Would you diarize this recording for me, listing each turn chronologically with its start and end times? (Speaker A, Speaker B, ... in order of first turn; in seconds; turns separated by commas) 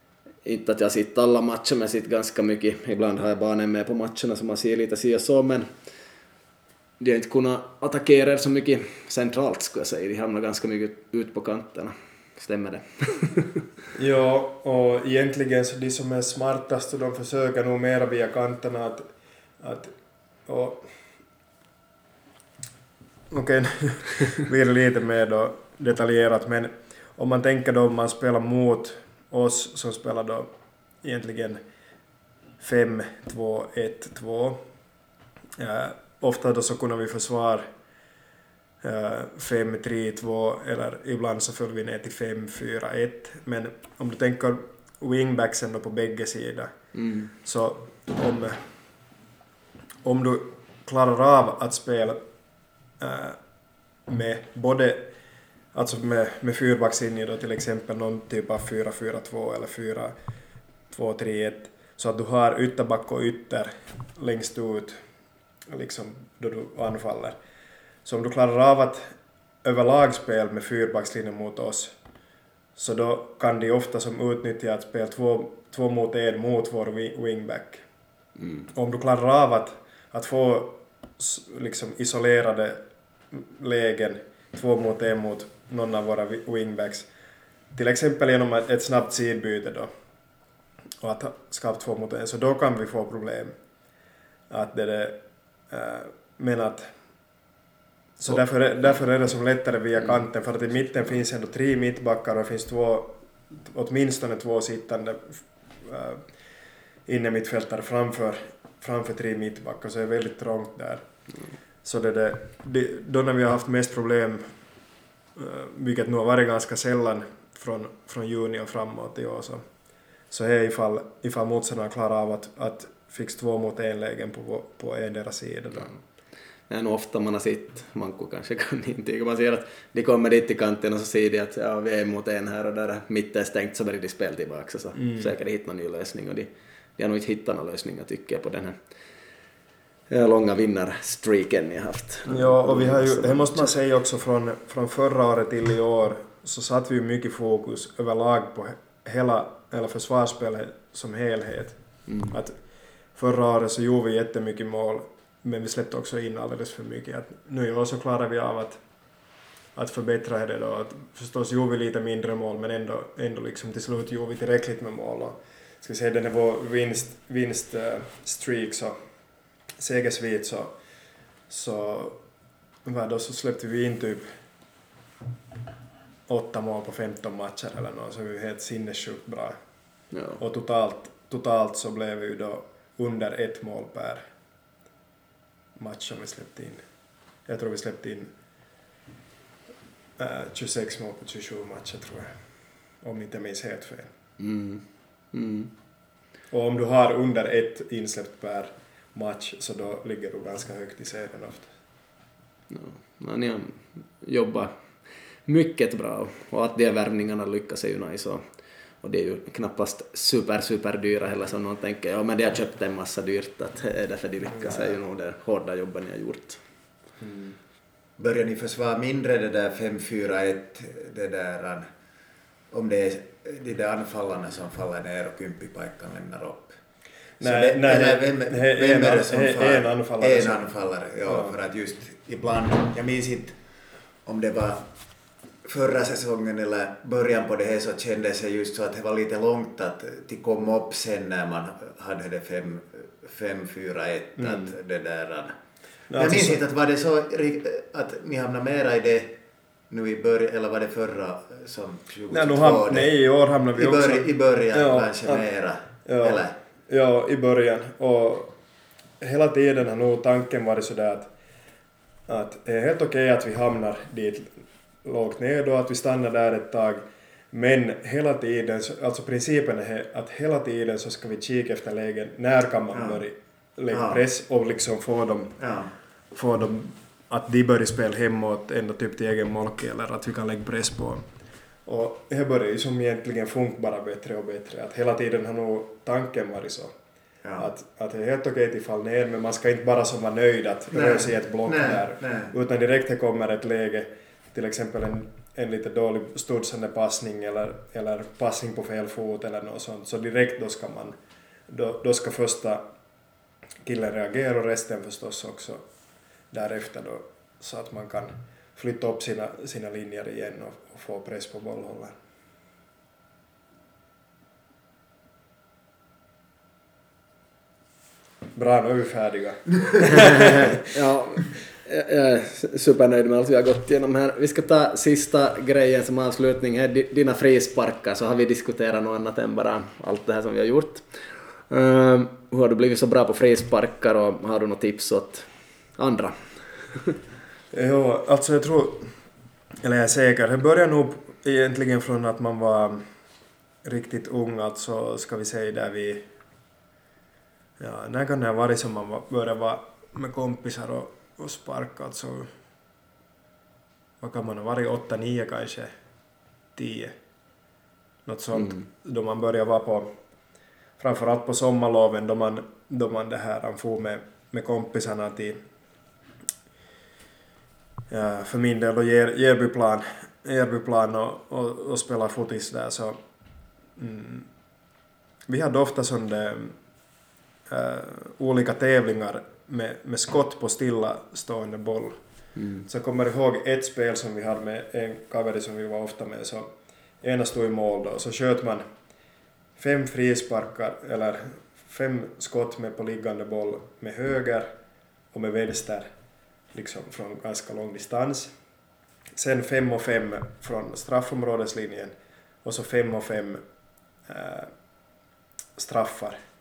Speaker A: 0.4-5.7, Speaker A: 7.0-13.6, Speaker B: 13.9-19.0, Speaker B: 19.6-19.9, Speaker B: 20.4-20.9, Speaker B: 23.3-30.5, Speaker B: 31.0-31.6, Speaker B: 32.6-34.6, Speaker B: 35.6-37.6, Speaker B: 38.8-46.7, Speaker A: 46.9-47.3, Speaker B: 47.4-48.6, Speaker B: 50.0-52.2, Speaker B: 53.0-53.4, Speaker B: 54.1-55.1, Speaker B: 55.7-60.1, Speaker B: 60.9-65.0, Speaker B: 65.7-67.3, Speaker B: 68.0-71.9, Speaker B: 72.8-77.8, Speaker A: 78.4-78.7, Speaker B: 78.7-87.1, Speaker B: 87.7-89.9, Speaker B: 91.0-93.5, Speaker B: 94.5-96.9, Speaker B: 98.2-106.3, Speaker B: 107.0-111.0, Speaker B: 111.8-114.5, Speaker B: 115.3-119.6, Speaker B: 120.3-125.9, Speaker A: 126.7-138.8, Speaker B: 134.9-135.3, Speaker A: 140.1-143.7, Speaker B: 142.2-152.6, Speaker A: 152.1-152.3, Speaker B: 153.1-158.8, Speaker B: 159.7-168.9, Speaker B: 169.8-170.8, Speaker B: 171.5-172.2, Speaker B: 172.8-174.3, Speaker B: 176.3-179.6, Speaker A: 180.1-180.4, Speaker B: 180.4-184.2, Speaker B: 185.8-186.8, Speaker B: 187.4-188.3, Speaker B: 190.2-192.4, Speaker B: 193.0-194.1, Speaker A: 194.4-195.7, Speaker B: 196.5-201.7, Speaker A: 202.7-204.7, Speaker A: 205.4-208.4, Speaker A: 209.0-216.6, Speaker B: 217.2-217.6, Speaker C: 218.2-221.9, Speaker C: 222.7-226.8, Speaker B: 227.4-230.6, Speaker C: 227.4-233.6, Speaker B: 231.2-231.5, Speaker C: 234.2-234.9, Speaker C: 235.6-245.6, Speaker B: 244.4-244.7, Speaker B: 246.1-246.6, Speaker C: 246.1-249.4, Speaker C: 249.9-253.1, Speaker B: 252.3-255.5, Speaker C: 253.7-256.6, Speaker B: 256.1-258.5, Speaker B: 259.2-261.3, Speaker B: 262.3-275.6, Speaker C: 272.9-273.2, Speaker C: 273.9-274.2, Speaker C: 275.6-275.9, Speaker B: 276.3-281.2, Speaker B: 281.9-286.9, Speaker C: 287.4-287.7, Speaker B: 287.6-301.1, Speaker C: 290.9-292.5, Speaker B: 301.7-302.8, Speaker B: 303.8-305.8, Speaker B: 306.5-312.2, Speaker B: 318.5-320.9, Speaker A: 320.2-337.1, Speaker B: 337.7-339.1, Speaker B: 339.8-343.0, Speaker B: 343.8-346.3, Speaker B: 347.8-352.5, Speaker B: 354.2-355.9, Speaker B: 356.7-357.1, Speaker B: 358.2-360.1, Speaker B: 361.0-365.6, Speaker B: 368.1-373.2, Speaker B: 374.0-374.5, Speaker B: 375.5-376.8, Speaker B: 377.7-382.2, Speaker A: 382.6-382.9, Speaker B: 382.9-386.7, Speaker B: 387.2-388.8, Speaker B: 389.8-394.7, Speaker B: 395.3-396.1, Speaker B: 396.7-398.5, Speaker B: 399.3-402.1, Speaker B: 402.6-403.6, Speaker B: 404.2-404.7, Speaker B: 405.8-406.4